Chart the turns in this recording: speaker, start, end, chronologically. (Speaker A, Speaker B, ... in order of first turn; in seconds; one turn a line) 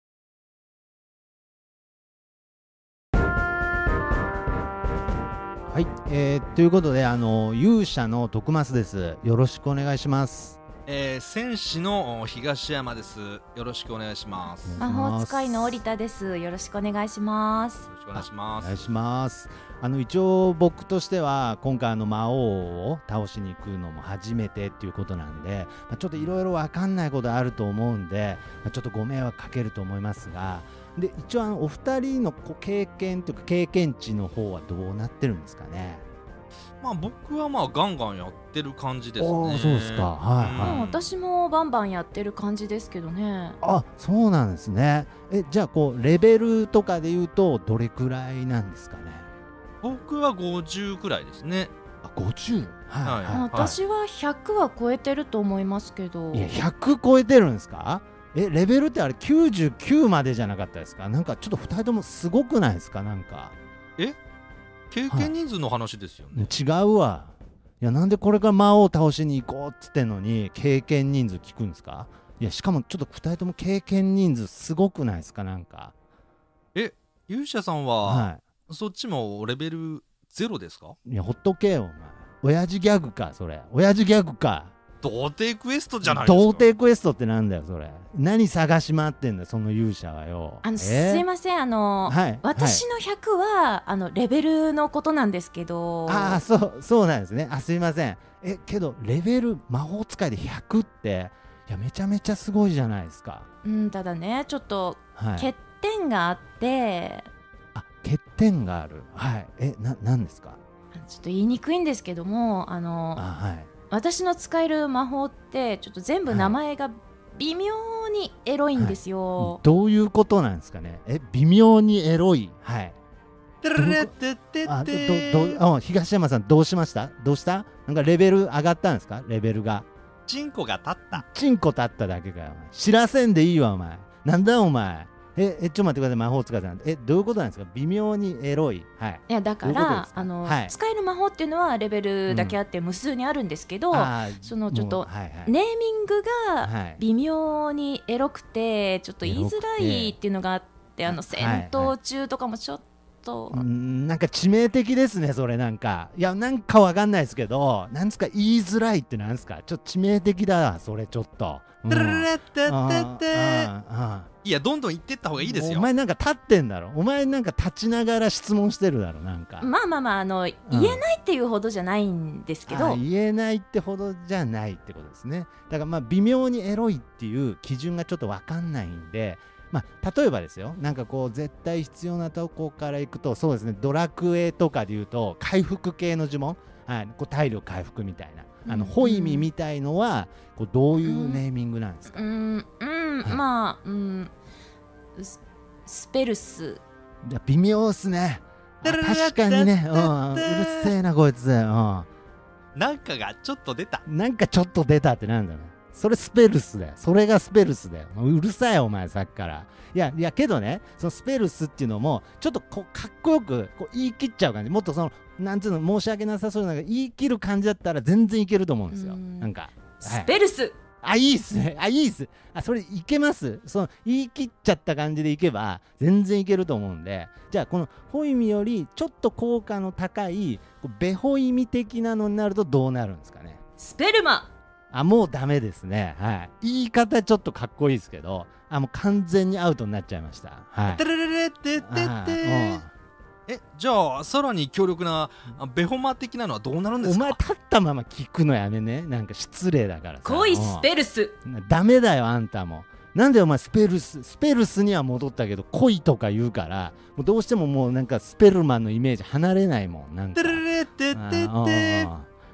Speaker A: 5.7-10.6
Speaker B: 10.9-14.8
Speaker A: 14.7-15.8
Speaker C: 14.8-17.9
Speaker B: 17.9-18.8
Speaker A: 18.1-36.0
Speaker B: 36.8-41.1
Speaker A: 39.2-40.8
Speaker C: 40.6-43.6
Speaker A: 43.6-49.3
Speaker B: 49.8-51.7
Speaker A: 52.0-53.8
Speaker B: 53.0-53.7
Speaker C: 53.3-56.5
Speaker A: 56.3-63.5
Speaker B: 64.9-66.5
Speaker A: 66.3-75.9
Speaker B: 76.8-81.0
Speaker A: 78.0-78.4
Speaker A: 81.1-84.7
Speaker B: 85.0-86.7
Speaker A: 86.0-91.3
Speaker C: 90.6-96.4
Speaker A: 92.1-92.8
Speaker A: 96.1-103.5
Speaker C: 103.6-107.3
Speaker A: 105.2-105.5
Speaker A: 107.7-110.6
Speaker C: 110.9-113.3
Speaker A: 113.2-113.7
Speaker C: 113.9-119.6
Speaker A: 116.3-116.6
Speaker A: 118.8-123.0
Speaker B: 123.6-125.6
Speaker A: 123.8-124.1
Speaker A: 124.7-129.9
Speaker B: 130.3-131.2
Speaker A: 131.1-140.7
Speaker C: 139.3-153.6
Speaker A: 142.3-142.6
Speaker A: 143.9-145.5
Speaker A: 146.6-147.0
Speaker A: 149.2-150.2
Speaker A: 151.1-152.0
Speaker A: 153.5-164.3
Speaker B: 161.9-163.7
Speaker B: 164.4-165.9
Speaker A: 165.4-169.7
Speaker C: 169.6-173.0
Speaker A: 170.7-171.0
Speaker A: 172.7-192.3
Speaker C: 188.7-189.5
Speaker C: 191.0-191.4
Speaker C: 192.1-194.3
Speaker C: 195.2-196.8
Speaker A: 197.2-202.1
Speaker B: 198.8-200.9
Speaker B: 202.8-204.0
Speaker A: 204.1-220.3
Speaker C: 218.9-220.8
Speaker A: 221.0-233.6
Speaker C: 233.8-234.5
Speaker A: 234.9-241.0
Speaker B: 240.9-242.8
Speaker A: 241.8-242.9
Speaker B: 243.5-247.4
Speaker A: 247.0-250.9
Speaker C: 250.2-251.3
Speaker A: 251.4-262.3
Speaker B: 260.4-262.1